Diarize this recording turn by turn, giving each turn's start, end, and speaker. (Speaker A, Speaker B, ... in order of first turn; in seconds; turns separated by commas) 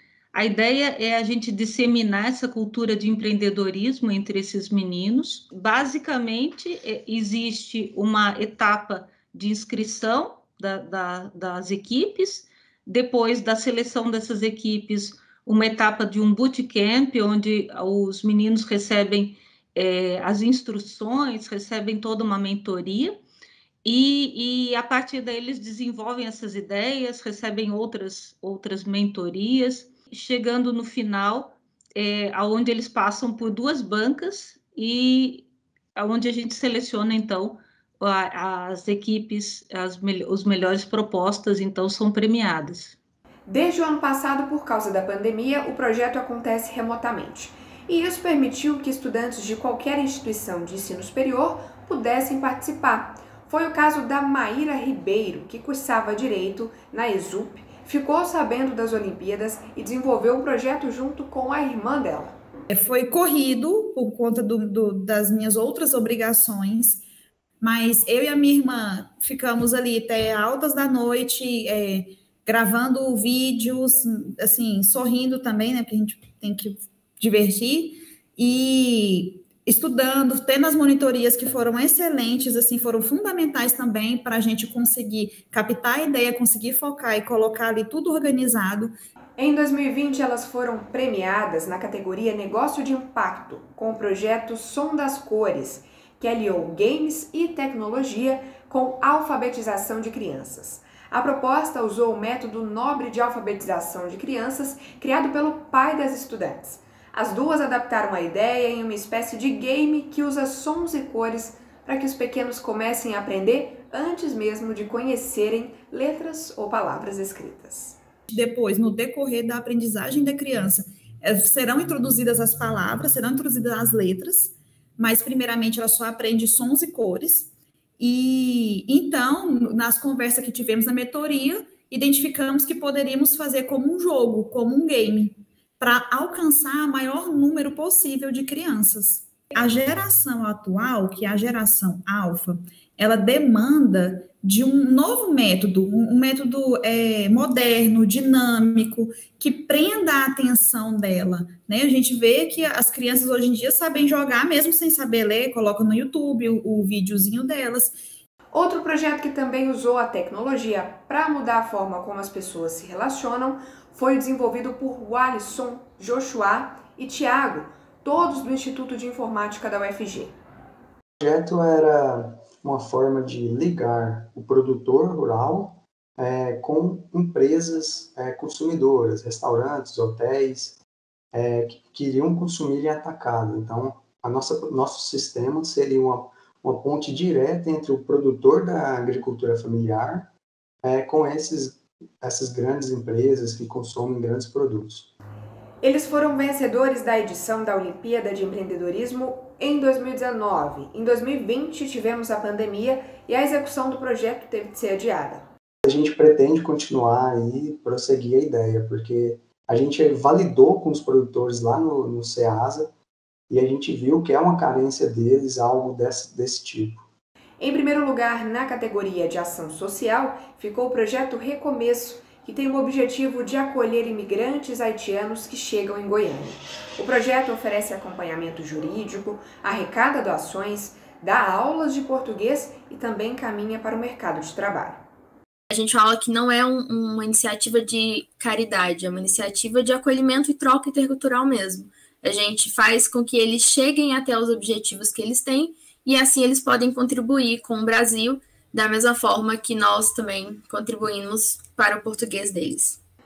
Speaker A: 0.3-23.2, Speaker A: 23.8-43.0, Speaker B: 43.5-62.4, Speaker C: 62.7-67.0, Speaker C: 67.6-89.0, Speaker B: 89.4-118.0, Speaker C: 118.3-158.0, Speaker B: 158.5-170.4, Speaker D: 171.2-180.8, Speaker D: 181.3-190.3, Speaker D: 190.8-195.1, Speaker B: 195.8-205.5, Speaker D: 205.9-212.9, Speaker D: 213.5-217.1, Speaker B: 217.6-235.1, Speaker E: 235.7-253.0